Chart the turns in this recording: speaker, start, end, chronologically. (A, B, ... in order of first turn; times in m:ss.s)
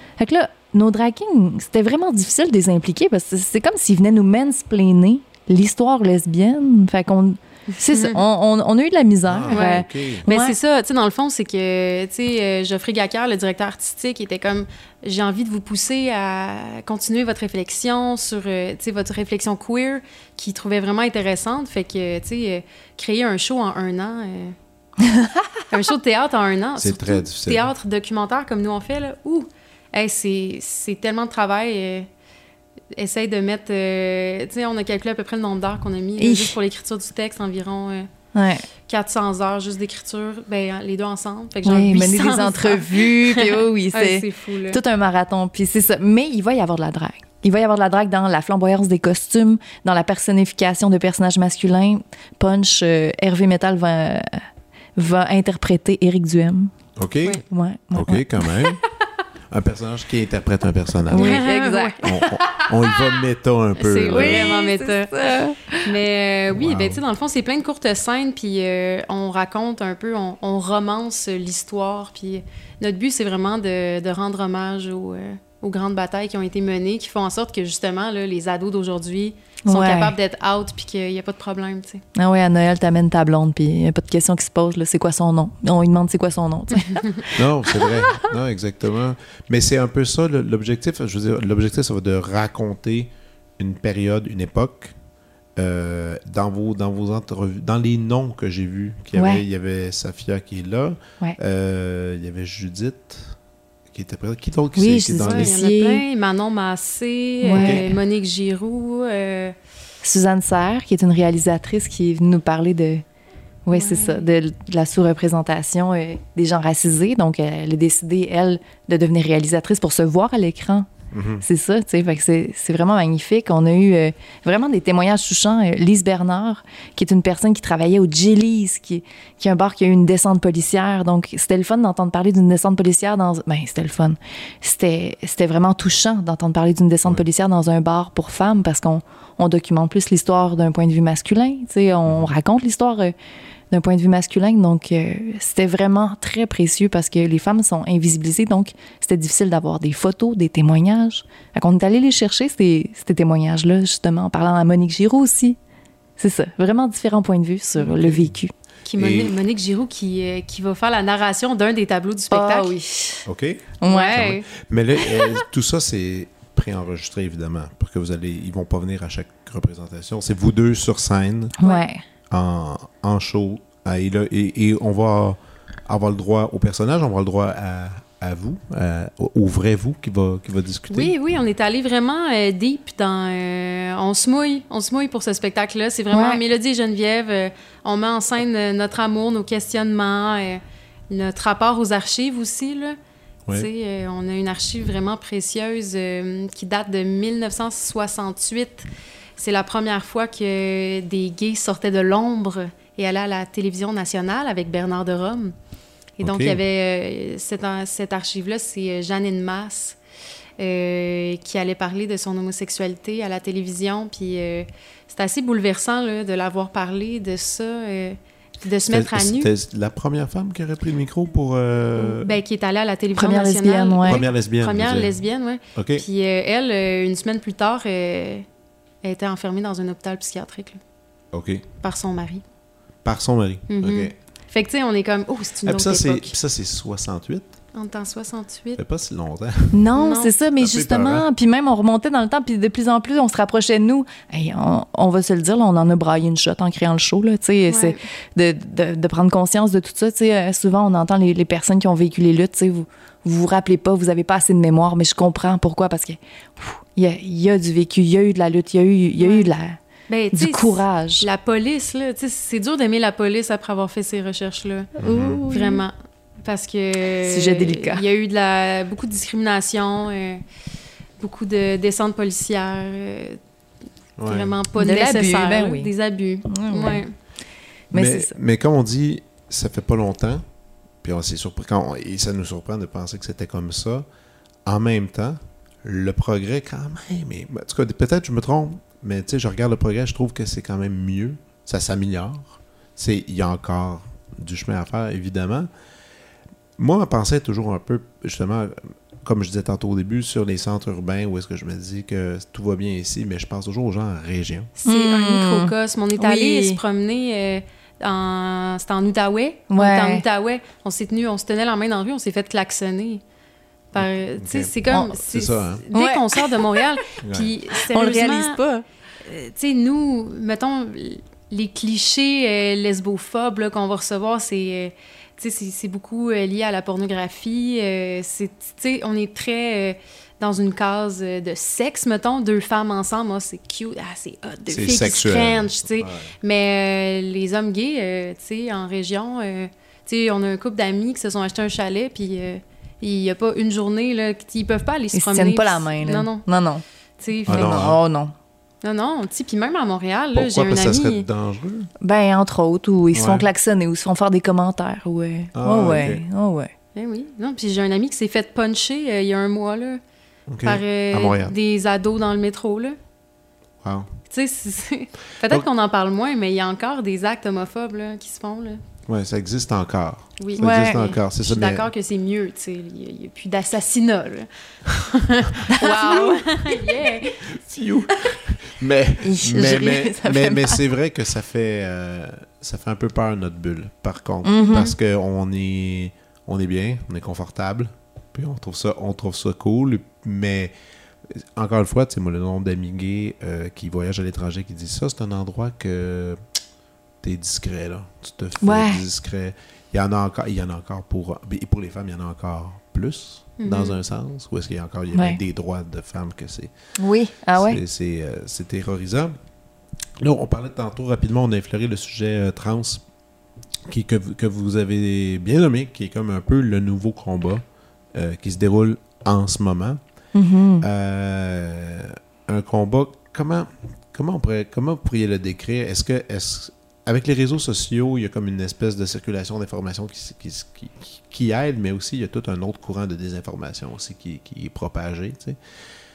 0:00.2-0:10.6 A
0:07.7-0:08.2 B
0:09.3-0:10.2 C
0:09.5-0:24.6 B
0:25.0-0:25.5 A
0:25.7-0:32.1 B
0:26.8-0:27.7 C
0:32.9-0:38.1 B
0:36.2-0:36.5 A
0:38.3-0:38.7 A
0:38.9-0:44.8 B
0:41.6-0:54.4 A
0:55.0-0:56.7 A
0:57.0-0:57.4 C
0:57.5-0:58.6 A
0:58.0-0:58.8 C
0:59.5-1:01.4 C
1:01.1-1:02.7 A
1:01.1-1:01.9 B
1:02.0-1:04.6 C
1:03.8-1:05.2 B
1:04.1-1:05.9 A
1:05.8-1:22.0 B
1:06.5-1:07.0 C
1:19.7-1:20.1 A
1:22.2-1:27.3 A
1:26.9-1:27.2 B
1:27.3-1:35.0 C
1:35.6-1:43.4 C
1:39.2-1:39.4 A
1:43.9-1:45.5 C
1:44.8-1:46.0 A
1:45.2-1:49.6 B
1:47.4-1:48.0 A
1:47.5-1:47.9 C
1:50.0-1:53.0 A
1:53.7-2:00.9 A
1:53.7-1:54.3 B
2:01.1-2:01.4 C
2:01.4-2:23.1 A
2:23.7-2:35.6 A
2:36.2-2:38.5 A
2:37.9-2:38.3 C
2:38.9-2:42.8 B
2:39.0-2:39.3 C
2:42.3-2:43.3 A
2:43.3-2:51.6 C
2:43.8-2:44.3 A
2:43.8-2:44.5 B
2:51.6-2:52.0 A
2:52.3-3:01.1 C
3:00.9-3:13.0 B
3:06.1-3:06.4 A
3:13.5-3:25.5 B
3:26.2-3:30.0 B
3:26.2-3:26.6 C
3:30.6-3:39.5 B
3:38.9-3:42.4 C
3:42.0-3:48.4 B
3:43.2-3:44.2 A
3:44.0-3:45.2 C
3:45.8-3:46.0 C
3:49.0-3:50.8 B
3:51.3-3:51.6 C
3:51.8-3:52.4 B
3:53.0-3:54.1 C
3:53.7-3:56.3 B
3:55.6-3:57.5 C
3:57.7-3:58.8 B
3:58.8-3:59.9 C
3:59.7-4:19.8 A
4:00.0-4:00.3 B
4:00.6-4:01.3 C
4:07.7-4:08.0 B
4:19.2-4:19.5 B
4:20.1-4:25.0 B
4:20.3-4:21.3 A
4:25.0-4:25.4 C
4:25.0-4:25.8 A
4:25.5-4:30.4 B
4:27.3-4:28.0 A
4:31.2-4:33.4 B
4:34.2-4:34.5 C
4:34.2-4:37.1 B
4:34.8-4:35.9 A
4:36.5-4:37.0 A
4:37.9-4:38.3 A
4:37.9-4:40.4 C
4:41.0-4:44.1 C
4:44.6-4:55.7 C
4:56.8-5:04.7 C
5:04.8-5:13.2 B
5:04.9-5:06.8 A
5:09.7-5:10.2 A
5:13.9-5:18.6 B
5:14.0-5:15.8 C
5:15.9-5:16.6 A
5:17.2-5:17.5 C
5:17.8-5:18.8 A
5:19.2-5:46.5 B
5:34.7-5:36.3 C
5:45.1-5:46.8 A
5:47.2-5:47.9 B
5:47.4-5:48.3 A
5:47.5-5:48.0 C
5:48.8-5:51.3 B
5:50.3-5:51.9 C
5:52.0-5:56.7 A
5:53.1-5:53.5 C
5:55.5-5:56.2 C
5:57.0-6:00.0 B
6:00.5-6:01.6 C
6:00.6-6:03.0 B
6:03.8-6:04.1 C
6:04.3-6:08.8 B
6:09.1-6:11.9 C
6:10.4-6:17.5 B
6:10.6-6:11.1 A
6:15.7-6:16.8 A
6:17.4-6:30.7 C
6:19.2-6:20.8 A
6:24.4-6:24.9 A
6:31.3-6:36.4 C
6:37.2-6:46.7 C
6:38.6-6:39.0 A
6:43.6-6:44.0 B
6:45.1-6:45.4 A
6:47.0-6:47.8 A
6:47.6-6:49.4 C
6:50.2-6:53.0 C
6:53.9-6:57.6 C
6:58.1-7:00.0 C
7:00.4-7:00.9 A
7:00.8-7:15.6 C